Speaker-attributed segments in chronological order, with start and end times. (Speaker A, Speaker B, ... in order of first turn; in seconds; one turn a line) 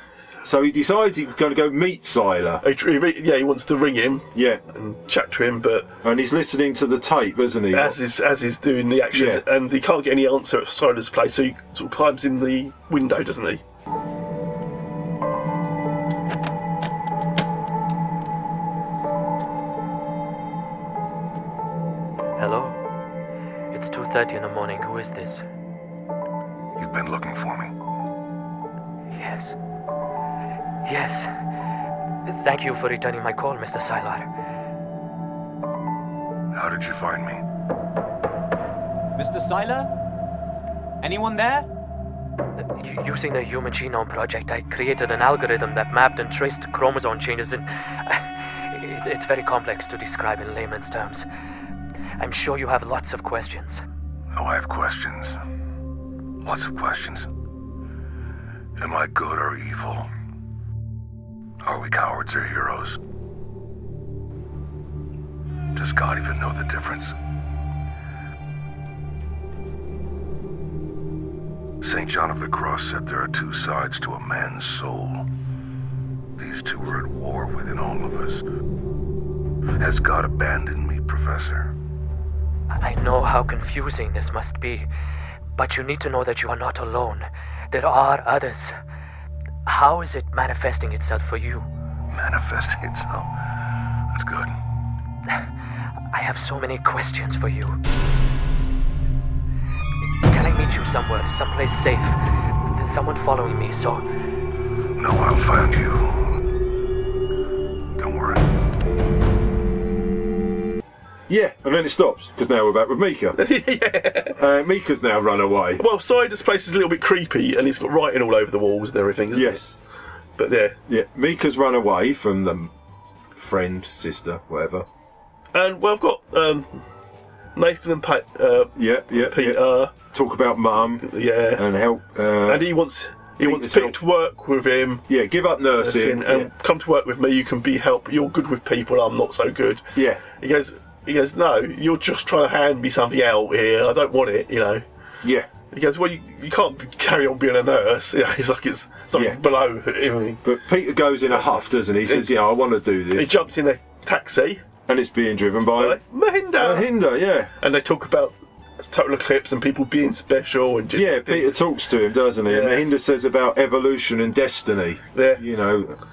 Speaker A: 0.4-2.6
Speaker B: 2.6-5.9
Speaker A: 4.3-4.6
Speaker A: 6.0-8.0
Speaker B: 7.7-13.6
Speaker A: 9.1-9.4
Speaker C: 22.4-22.8
Speaker C: 23.7-25.4
Speaker D: 26.8-27.7
Speaker C: 29.1-29.5
Speaker C: 30.8-31.3
Speaker C: 32.2-34.3
Speaker D: 36.5-37.4
Speaker C: 42.6-51.2
Speaker C: 52.2-53.8
Speaker D: 54.3-55.4
Speaker D: 56.4-57.3
Speaker D: 58.8-60.1
Speaker D: 61.6-63.0
Speaker D: 65.7-67.1
Speaker D: 71.8-75.2
Speaker D: 76.4-78.4
Speaker D: 79.8-81.7
Speaker C: 82.8-84.9
Speaker C: 85.5-88.7
Speaker C: 89.7-91.7
Speaker D: 92.1-93.3
Speaker D: 94.1-94.5
Speaker C: 96.1-97.8
Speaker C: 100.3-102.2
Speaker C: 102.7-104.0
Speaker D: 105.0-106.2
Speaker D: 108.0-108.4
Speaker A: 111.3-113.4
Speaker B: 113.3-114.3
Speaker A: 114.4-115.8
Speaker B: 115.8-119.6
Speaker A: 119.3-119.7
Speaker B: 120.4-120.8
Speaker A: 120.9-122.7
Speaker A: 123.3-124.8
Speaker B: 125.5-126.8
Speaker B: 127.5-129.9
Speaker A: 128.8-132.7
Speaker B: 131.0-131.6
Speaker B: 132.4-135.0
Speaker A: 133.4-134.0
Speaker A: 135.1-136.5
Speaker B: 135.8-144.8
Speaker A: 139.9-140.2
Speaker B: 145.7-150.4
Speaker A: 149.1-149.4
Speaker A: 150.4-153.5
Speaker B: 152.1-152.3
Speaker B: 153.1-154.6
Speaker A: 154.9-156.0
Speaker B: 155.8-156.9
Speaker A: 156.6-157.5
Speaker B: 157.6-161.6
Speaker A: 160.9-165.9
Speaker B: 162.5-162.8
Speaker B: 165.1-165.4